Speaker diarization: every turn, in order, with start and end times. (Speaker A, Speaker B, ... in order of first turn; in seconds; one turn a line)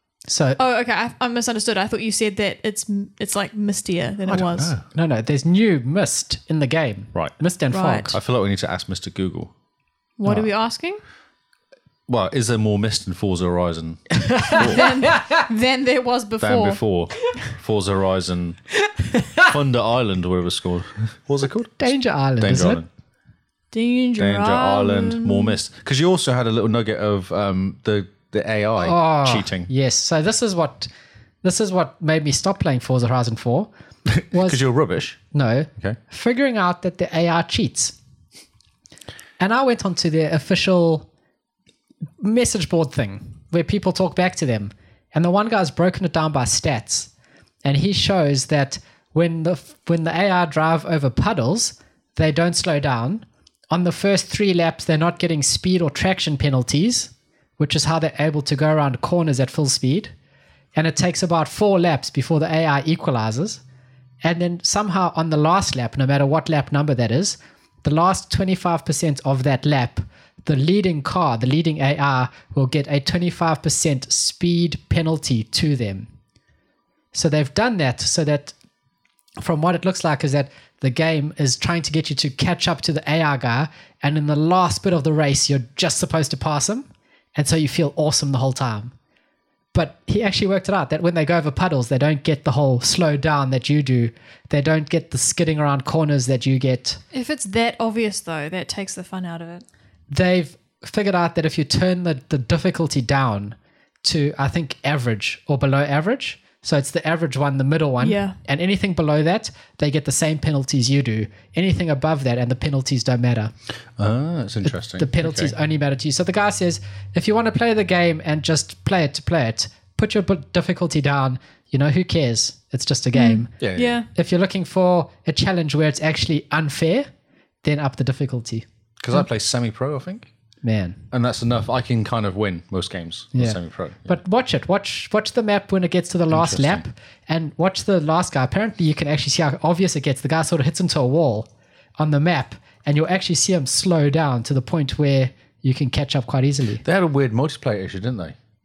Speaker A: 0.3-0.6
Speaker B: 0.6-4.7
Speaker C: 4.3-4.9
Speaker A: 4.9-8.2
Speaker B: 7.7-8.1
Speaker C: 8.1-9.5
Speaker B: 10.2-11.0
Speaker C: 12.1-14.9
Speaker A: 14.2-15.4
Speaker B: 14.6-16.8
Speaker C: 16.4-18.6
Speaker A: 19.0-19.5
Speaker C: 19.4-22.9
Speaker A: 21.8-22.8
Speaker B: 23.7-25.6
Speaker C: 24.2-29.7
Speaker A: 28.8-30.9
Speaker A: 31.4-33.7
Speaker C: 34.1-35.2
Speaker A: 34.3-34.6
Speaker A: 35.3-38.0
Speaker A: 39.4-41.1
Speaker A: 42.2-47.1
Speaker A: 47.6-60.1
Speaker A: 60.8-63.6
Speaker A: 64.2-76.1
Speaker A: 77.1-78.5
Speaker A: 79.4-88.9
Speaker A: 89.7-97.0
Speaker B: 97.1-99.7
Speaker A: 100.1-113.5
Speaker B: 108.0-108.4
Speaker C: 114.0-115.5
Speaker A: 114.7-127.1
Speaker B: 123.1-124.1
Speaker C: 123.6-124.0
Speaker A: 127.6-129.2
Speaker C: 129.0-130.3
Speaker A: 130.6-131.0
Speaker C: 131.1-134.2
Speaker A: 133.3-146.8
Speaker C: 136.3-136.8
Speaker C: 146.8-148.4